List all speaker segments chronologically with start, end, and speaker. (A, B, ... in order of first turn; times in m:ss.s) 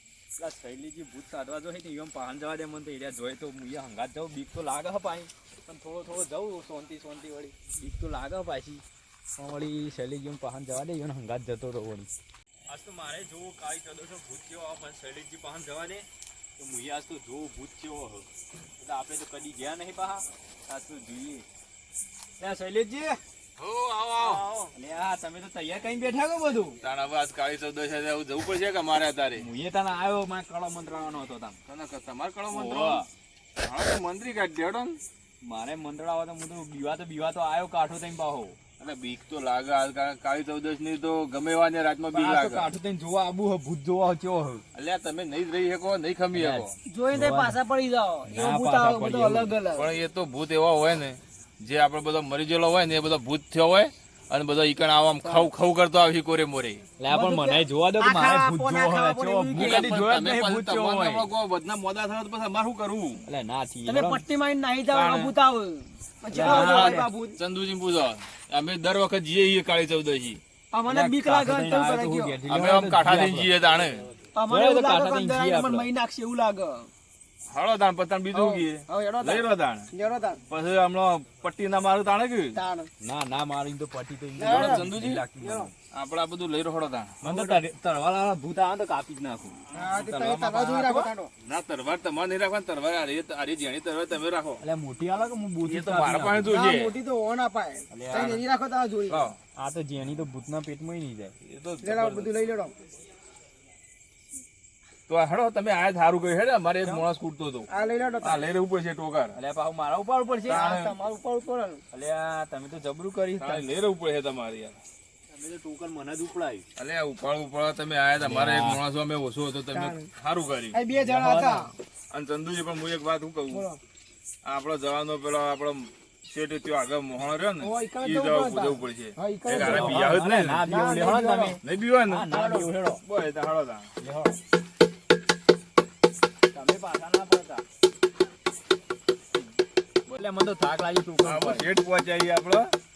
0:00.4-0:08.8 A
0:09.4-0:12.1 A
0:12.7-0:16.1 A
0:16.6-0:18.3 A
0:18.8-0:21.5 A
0:22.4-0:23.2 A
0:23.6-0:24.6 B
0:24.2-0:26.8 A
0:26.8-0:29.5 B
0:29.4-0:31.6 A
0:31.7-0:33.0 B
0:32.5-0:33.1 A
0:33.6-0:35.0 B
0:35.4-0:38.6 A
0:38.8-0:42.7 B
0:42.1-0:44.6 A
0:44.7-0:46.8 B
0:46.3-0:47.6 A
0:46.9-0:49.9 C
0:48.3-0:49.5 A
0:49.7-0:56.8 B
0:57.0-1:01.3 A
0:57.1-0:59.9 C
0:59.6-1:03.2 B
1:03.3-1:04.2 A
1:03.9-1:07.4 C
1:04.9-1:05.3 B
1:06.3-1:07.1 A
1:06.4-1:10.4 B
1:10.7-1:12.4 C
1:10.9-1:13.7 A
1:12.5-1:14.1 B
1:14.3-1:16.9 C
1:14.5-1:15.9 A
1:17.5-1:19.9 B
1:18.3-1:20.4 C
1:20.5-1:22.6 B
1:22.6-1:22.9 C
1:23.0-1:25.7 A
1:24.4-1:25.7 C
1:24.4-1:25.2 B
1:25.9-1:27.6 B
1:27.2-1:29.6 A
1:29.7-1:31.3 C
1:29.7-1:34.6 B
1:34.6-1:36.6 A
1:35.7-1:36.9 B
1:36.5-1:39.3 C
1:37.9-1:38.4 A
1:38.1-1:38.4 B
1:39.1-1:39.4 B
1:39.6-1:41.3 A
1:41.4-1:42.3 B
1:41.8-1:42.8 C
1:45.1-1:47.7 B
1:47.7-1:48.5 C
1:48.2-1:49.4 B
1:49.4-1:50.7 A
1:50.4-1:51.8 C
1:50.5-1:50.9 B
1:51.9-1:53.7 A
1:53.4-1:54.8 B
1:55.3-1:56.7 A
1:56.8-2:00.8 B
1:58.2-1:58.8 A
1:59.7-2:00.1 C
2:00.7-2:01.7 C
2:01.0-2:01.7 A
2:02.1-2:03.7 B
2:03.5-2:03.8 C
2:04.4-2:10.7 B
2:07.6-2:10.1 C
2:09.6-2:13.0 A
2:10.6-2:11.6 C
2:11.6-2:13.9 B
2:12.4-2:12.6 C
2:14.0-2:14.4 A
2:16.5-2:17.6 A
2:20.1-2:21.7 A
2:21.2-2:22.8 B